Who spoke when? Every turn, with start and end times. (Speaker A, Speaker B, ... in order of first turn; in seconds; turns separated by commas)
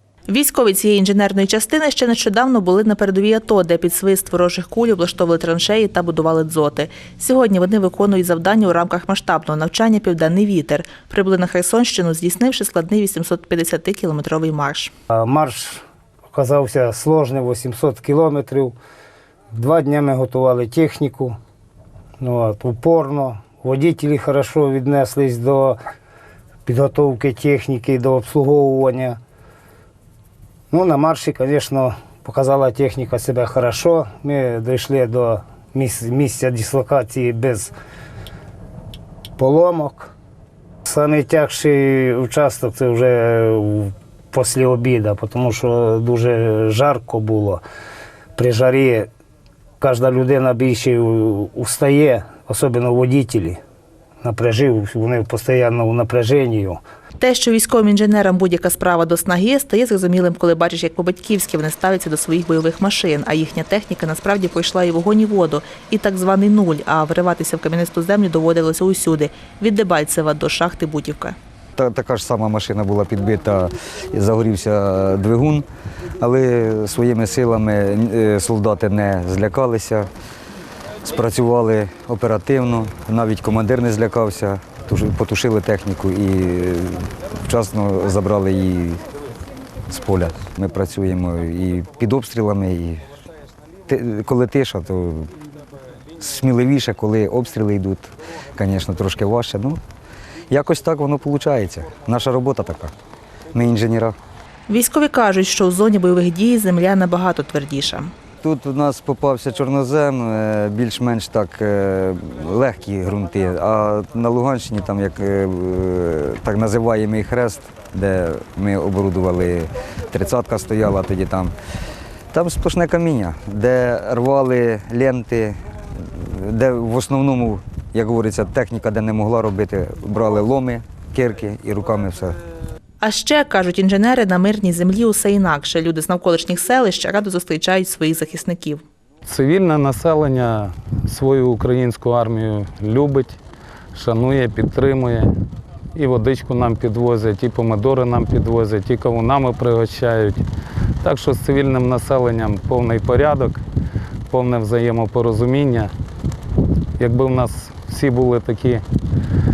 Speaker A: 0.3-14.9, Speaker B: 15.1-18.8, Speaker B: 19.5-21.4, Speaker B: 22.2-25.8, Speaker B: 26.7-29.2, Speaker B: 30.7-37.7, Speaker B: 39.4-40.1, Speaker B: 40.9-47.6, Speaker B: 48.4-49.1, Speaker B: 49.8-53.6, Speaker B: 54.2-56.8, Speaker A: 57.2-71.3, Speaker C: 71.8-75.7, Speaker C: 76.2-80.1, Speaker C: 81.0-89.0, Speaker C: 89.9-93.1, Speaker C: 93.9-95.3, Speaker C: 96.2-99.8, Speaker C: 100.5-102.9, Speaker C: 103.5-104.2, Speaker A: 104.7-108.1, Speaker C: 108.4-121.5, Speaker C: 122.3-132.4, Speaker A: 133.0-138.8, Speaker D: 139.3-143.4, Speaker D: 143.9-145.3, Speaker D: 145.9-150.4, Speaker D: 151.0-153.6, Speaker D: 154.3-155.9, Speaker D: 157.0-158.8